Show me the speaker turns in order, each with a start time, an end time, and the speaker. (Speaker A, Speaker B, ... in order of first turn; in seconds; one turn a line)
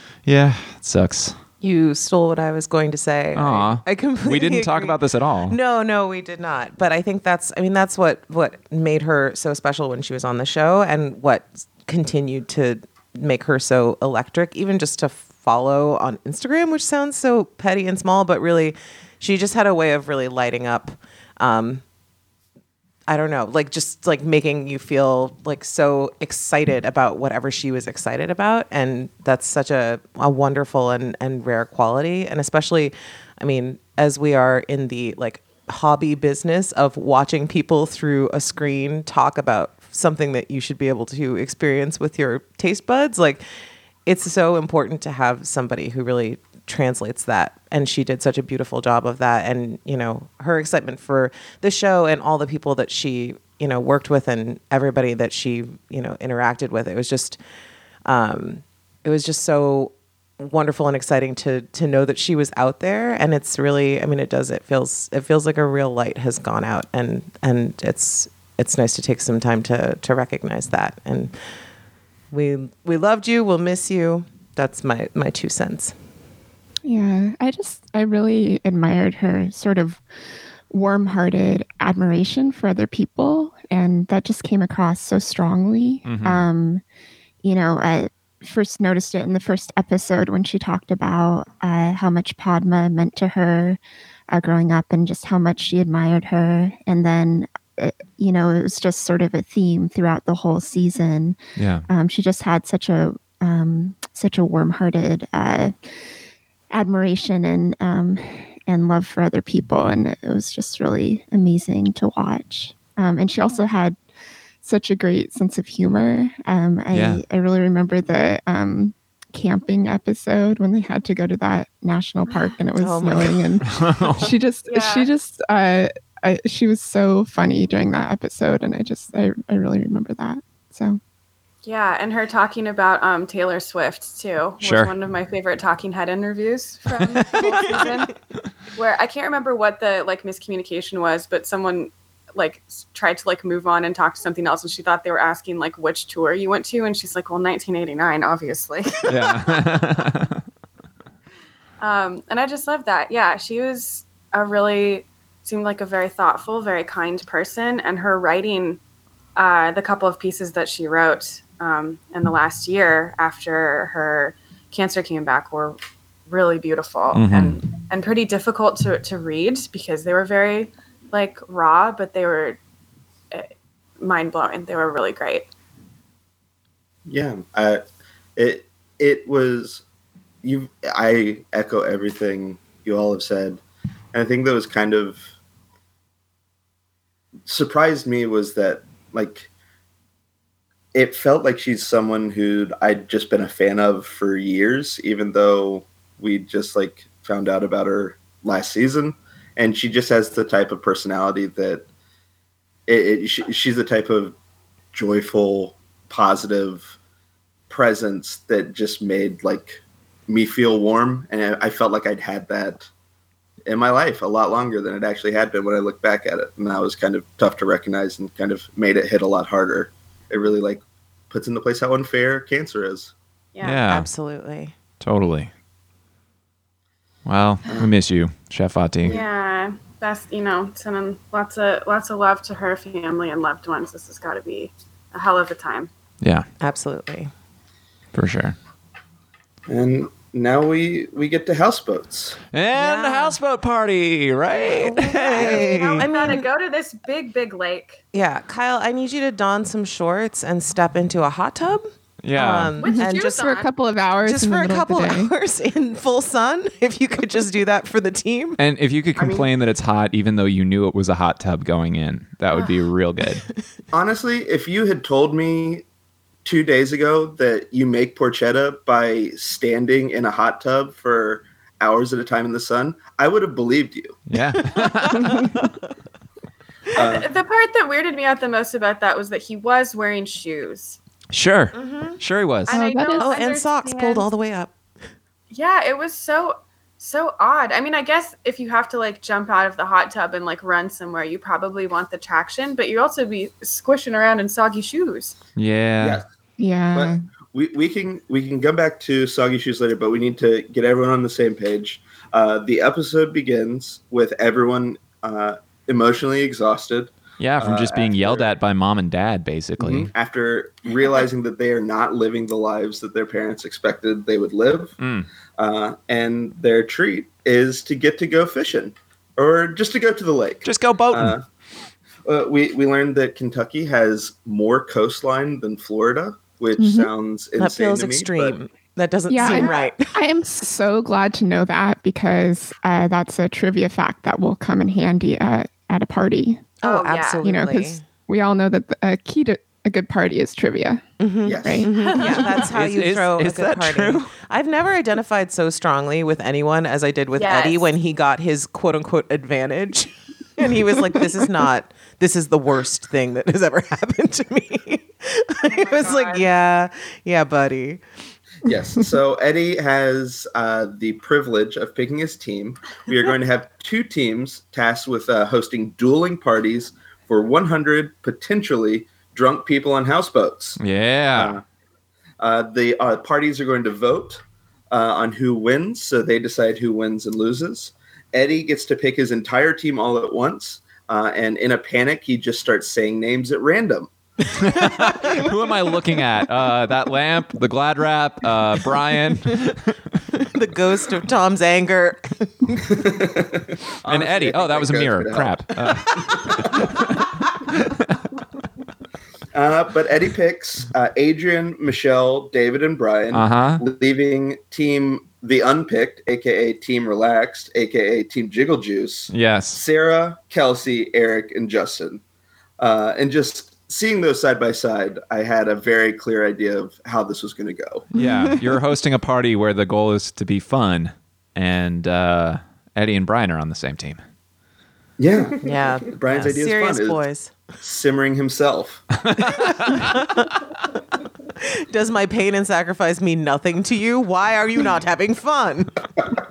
Speaker A: 0.3-1.4
Speaker B: 1.6-21.8
Speaker A: 3.4-5.6
Speaker B: 23.1-43.4
Speaker B: 44.1-57.4
Speaker B: 58.1-71.3
Speaker B: 72.3-75.9
Speaker C: 76.8-80.0
Speaker C: 80.7-86.8
Speaker A: 86.0-86.5
Speaker C: 87.4-106.0
Speaker A: 101.6-101.9
Speaker C: 106.7-114.0
Speaker C: 114.6-131.0
Speaker A: 116.9-117.2
Speaker B: 122.8-123.5
Speaker A: 123.7-124.3
Speaker D: 124.7-125.1
Speaker D: 131.6-138.1
Speaker A: 134.6-134.9
Speaker D: 138.8-149.9
Speaker A: 149.1-150.4
Speaker D: 151.8-158.8
Speaker D: 159.4-172.6
Speaker A: 167.1-167.6
Speaker D: 173.3-175.5
Speaker E: 177.1-177.8
Speaker E: 178.4-179.8
Speaker E: 180.4-183.6
Speaker E: 184.1-185.3
Speaker E: 187.5-189.5
Speaker E: 190.9-201.9
Speaker E: 202.9-204.3
Speaker E: 204.9-206.9
Speaker E: 207.7-212.9
Speaker E: 213.7-223.1
Speaker D: 223.6-223.9
Speaker A: 223.6-224.1
Speaker B: 223.9-224.7
Speaker A: 225.0-225.5
Speaker A: 227.2-229.2
Speaker D: 229.0-235.9
Speaker A: 236.2-236.5
Speaker B: 236.6-237.3
Speaker A: 238.1-238.6
Speaker E: 239.7-242.4
Speaker A: 242.5-245.9
Speaker B: 242.8-243.4
Speaker D: 244.7-248.0
Speaker B: 245.1-246.4
Speaker B: 248.1-253.4
Speaker A: 252.2-252.7
Speaker D: 252.8-253.7
Speaker C: 252.8-255.3
Speaker B: 254.3-258.6
Speaker A: 258.6-263.4
Speaker E: 259.2-259.5
Speaker E: 263.9-265.9
Speaker E: 266.4-274.2
Speaker A: 274.3-275.5
Speaker B: 274.6-275.8
Speaker D: 276.9-281.0
Speaker E: 277.0-277.3
Speaker A: 281.3-282.8
Speaker B: 281.8-282.2
Speaker D: 282.7-284.3
Speaker C: 282.7-283.3
Speaker B: 283.2-284.7
Speaker D: 285.5-295.4
Speaker A: 295.6-296.2
Speaker C: 296.6-297.2
Speaker E: 296.9-308.5
Speaker A: 307.4-310.1
Speaker E: 309.8-315.0
Speaker A: 315.0-315.3
Speaker E: 315.6-321.4
Speaker A: 320.6-321.4
Speaker E: 322.2-328.6
Speaker C: 326.8-327.1
Speaker B: 327.6-330.1
Speaker C: 329.3-336.7
Speaker D: 329.4-329.9
Speaker B: 336.8-338.0
Speaker D: 336.8-337.4
Speaker C: 337.4-341.9
Speaker B: 341.2-358.0
Speaker E: 341.4-341.9
Speaker D: 341.9-342.6
Speaker A: 342.3-344.3
Speaker D: 347.4-347.9
Speaker C: 351.2-351.5
Speaker D: 355.6-356.5
Speaker E: 358.6-370.8
Speaker A: 370.8-371.6
Speaker E: 371.3-371.6
Speaker E: 372.4-384.1
Speaker A: 384.5-390.0
Speaker B: 390.3-393.1
Speaker E: 392.9-397.2
Speaker A: 394.1-397.2
Speaker B: 396.3-396.8
Speaker A: 397.8-398.1
Speaker E: 399.5-412.2
Speaker A: 403.3-403.8
Speaker A: 409.3-409.8
Speaker E: 412.8-418.1
Speaker A: 418.1-424.2
Speaker C: 418.1-418.6
Speaker E: 425.2-427.2
Speaker B: 425.6-427.6
Speaker E: 427.8-429.2
Speaker A: 429.2-430.3
Speaker B: 429.9-430.5
Speaker B: 431.6-436.0